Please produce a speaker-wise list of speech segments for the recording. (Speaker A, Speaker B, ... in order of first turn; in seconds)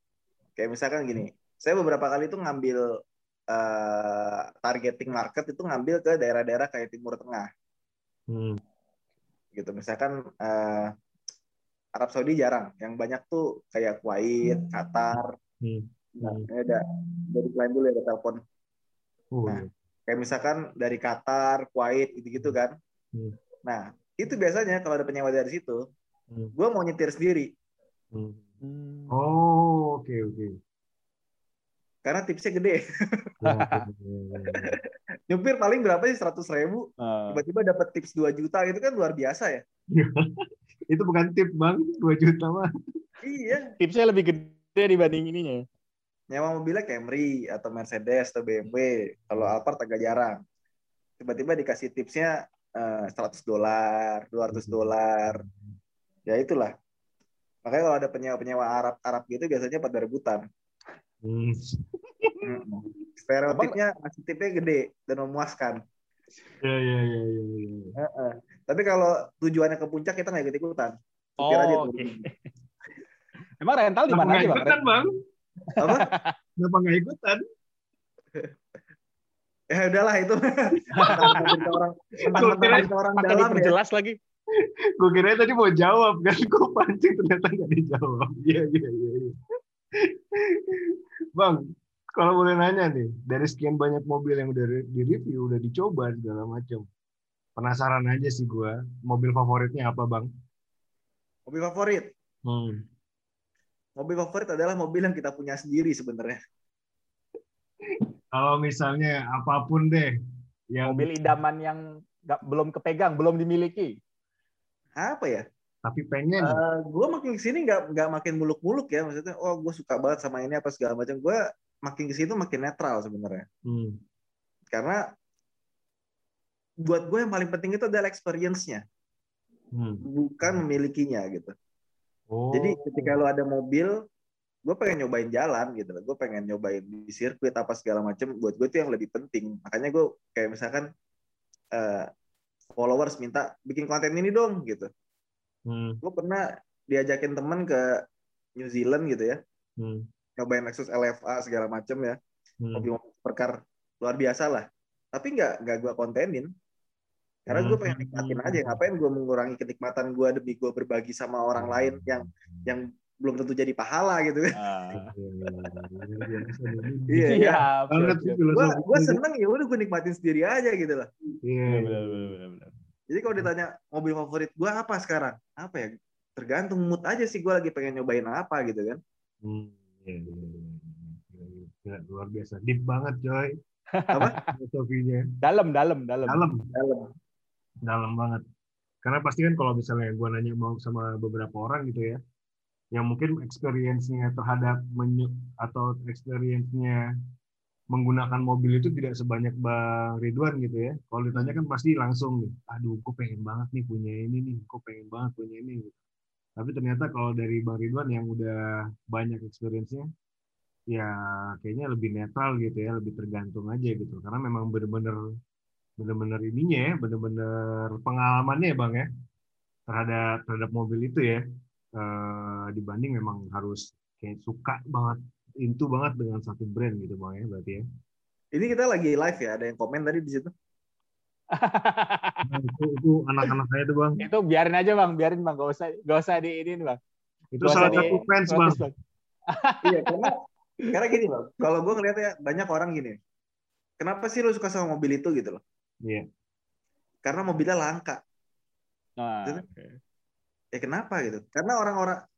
Speaker A: 0.6-2.8, 3.5-7.5, 9.5-10.9, 11.9-15.3, 16.2-18.4, 19.5-22.8, 23.6-25.8, 26.6-27.5, 32.0-33.3, 35.3-39.6, 43.2-43.7, 46.3-50.4, 51.2-55.4, 56.3-56.7, 57.6-60.4, 62.4-65.8, 68.0-72.2, 75.8-76.1, 79.7-83.7, 101.5-102.1, 104.0-106.4, 115.0-115.4, 116.4-123.5, 124.7-125.0, 126.8-128.8, 130.1-131.5, 132.5-133.9, 134.6-140.9, 141.7-142.1, 142.8-144.9, 146.0-148.0, 148.6-149.4, 150.4-152.2, 152.7-156.5, 157.5-164.5, 167.1-167.6, 168.5-171.1, 173.1-179.0, 186.7-187.1, 228.5-230.5, 237.7-238.2, 239.8-240.3, 240.9-243.2, 244.0-245.6, 247.2-248.2, 250.7-252.2
Speaker B: 8.3-8.6, 15.6-16.5, 19.3-19.7, 28.1-28.5, 29.1-30.6, 33.4-34.8, 39.9-40.3, 40.9-42.7, 54.5-55.7, 61.2-62.3, 66.6-67.9, 74.1-75.1, 76.6-77.4, 81.0-81.5, 82.3-82.9, 85.0-89.3, 90.0-91.6, 92.2-96.9, 97.6-100.3, 102.5-102.8, 108.0-110.1, 110.7-111.3, 115.8-116.6, 123.7-124.0, 129.7-130.6, 132.3-133.2, 145.7-146.0, 149.8-150.1, 152.6-152.9, 157.5-158.8, 161.6-162.7, 164.9-167.4, 167.9-169.2, 171.4-172.3, 179.4-183.6, 184.4-185.3, 186.3-186.7, 187.8-188.4, 189.0-192.2, 192.9-197.0, 197.9-205.9, 206.6-210.1, 210.9-215.2, 216.0-219.1, 219.9-221.4, 222.0-227.8, 232.4-234.2, 237.5-238.8
Speaker C: 28.6-29.2, 33.4-33.9, 37.0-37.4, 43.8-45.6, 63.5-63.8, 71.4-72.3, 73.6-74.9, 75.8-76.3, 80.9-81.4, 82.3-84.2, 110.8-114.0, 164.5-165.1, 167.2-168.4, 171.7-172.7, 183.9-184.5, 185.4-186.4, 201.3-201.6, 231.5-232.4, 234.2-237.0, 237.6-238.9, 239.5-240.3, 249.2-250.0